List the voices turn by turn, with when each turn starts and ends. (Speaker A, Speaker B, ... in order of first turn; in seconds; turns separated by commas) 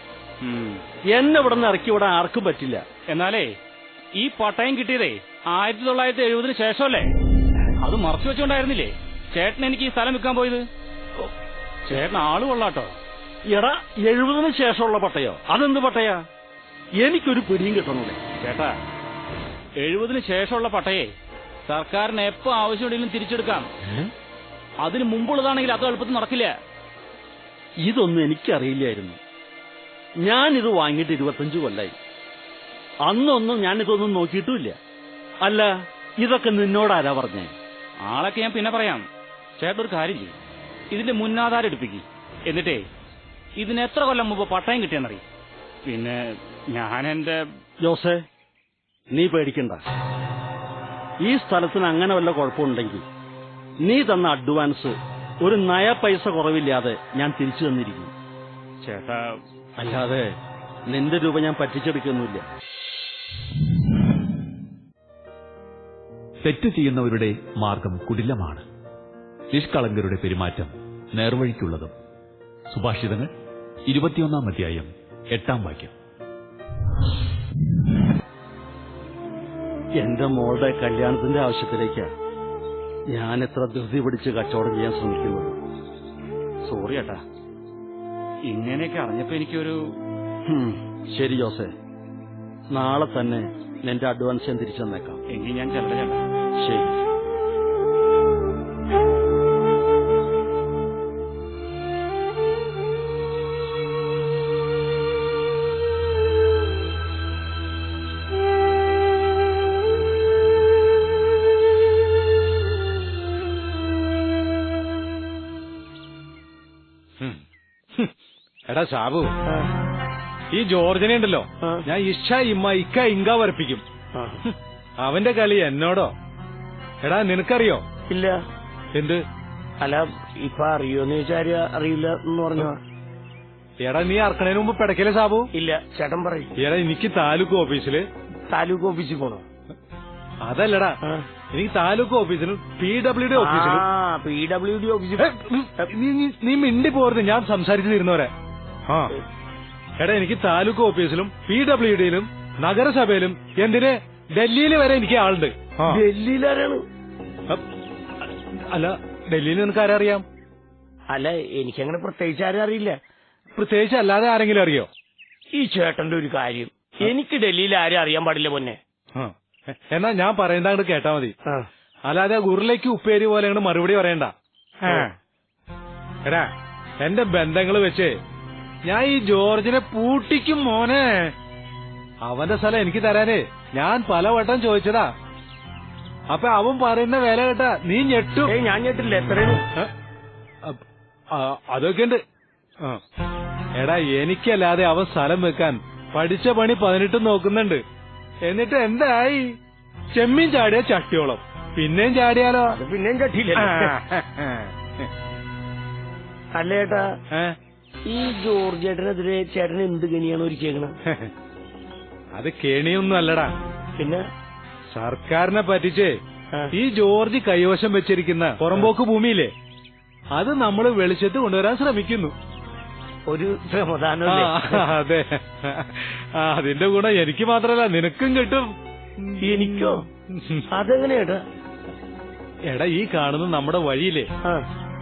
Speaker A: 0.4-0.8, Speaker B: 1.1-2.8, Speaker A: 3.1-3.6, Speaker A: 4.2-7.1, Speaker A: 7.8-10.7, Speaker A: 11.9-12.9, Speaker B: 13.5-16.2, Speaker B: 17.0-18.2, Speaker A: 18.4-18.8, Speaker A: 19.8-21.1, Speaker A: 21.7-23.7, Speaker A: 24.8-26.5, Speaker B: 27.8-29.2, Speaker B: 30.2-31.9, Speaker B: 33.0-34.8, Speaker B: 35.4-37.5, Speaker A: 38.1-39.0, Speaker A: 39.6-40.4, Speaker A: 40.9-42.9, Speaker A: 43.6-45.2, Speaker A: 45.9-46.2, Speaker A: 46.7-47.4, Speaker B: 47.8-48.2, Speaker B: 49.1-49.8, Speaker B: 51.2-53.0, Speaker B: 53.8-58.1, Speaker A: 58.8-59.4, Speaker B: 59.8-60.3, Speaker B: 60.9-62.5, Speaker C: 66.4-68.7, Speaker C: 69.5-71.9, Speaker C: 72.7-73.3, Speaker C: 73.9-75.9, Speaker B: 80.0-82.1, Speaker B: 83.1-85.6, Speaker A: 86.7-87.2, Speaker A: 88.5-89.8, Speaker B: 90.5-91.7, Speaker B: 92.7-95.2, Speaker A: 95.3-96.2, Speaker B: 96.6-97.0, Speaker D: 118.7-119.3, Speaker D: 120.5-123.8, Speaker E: 124.1-124.4, Speaker D: 124.4-126.1, Speaker D: 127.0-127.8, Speaker E: 128.1-128.4, Speaker D: 128.9-129.2, Speaker E: 129.8-132.8, Speaker D: 133.8-135.5, Speaker E: 135.5-136.5, Speaker D: 136.6-138.1, Speaker E: 138.5-139.4, Speaker D: 140.4-141.0, Speaker D: 141.5-143.8, Speaker E: 143.3-145.9, Speaker D: 145.2-148.3, Speaker D: 148.9-149.1, Speaker D: 150.0-156.0, Speaker E: 155.8-156.8, Speaker D: 158.2-160.2, Speaker E: 161.1-163.0, Speaker D: 163.6-164.9, Speaker E: 165.6-168.8, Speaker D: 169.1-171.3, Speaker D: 172.1-175.1, Speaker D: 176.3-178.2, Speaker D: 178.8-181.3, Speaker D: 182.2-185.1, Speaker D: 186.3-188.5, Speaker E: 188.5-189.7, Speaker D: 191.3-192.2, Speaker D: 193.8-197.8, Speaker D: 198.4-199.6, Speaker D: 200.1-202.8, Speaker E: 202.7-204.0, Speaker D: 203.6-205.1, Speaker E: 206.6-207.1, Speaker E: 208.1-210.9, Speaker D: 211.1-211.3, Speaker D: 212.4-213.6, Speaker E: 214.0-214.2, Speaker D: 214.9-216.2, Speaker D: 216.7-219.5, Speaker D: 220.3-222.3, Speaker E: 223.3-224.8, Speaker D: 224.3-230.7, Speaker E: 229.4-230.1, Speaker E: 230.7-231.4, Speaker D: 232.7-234.3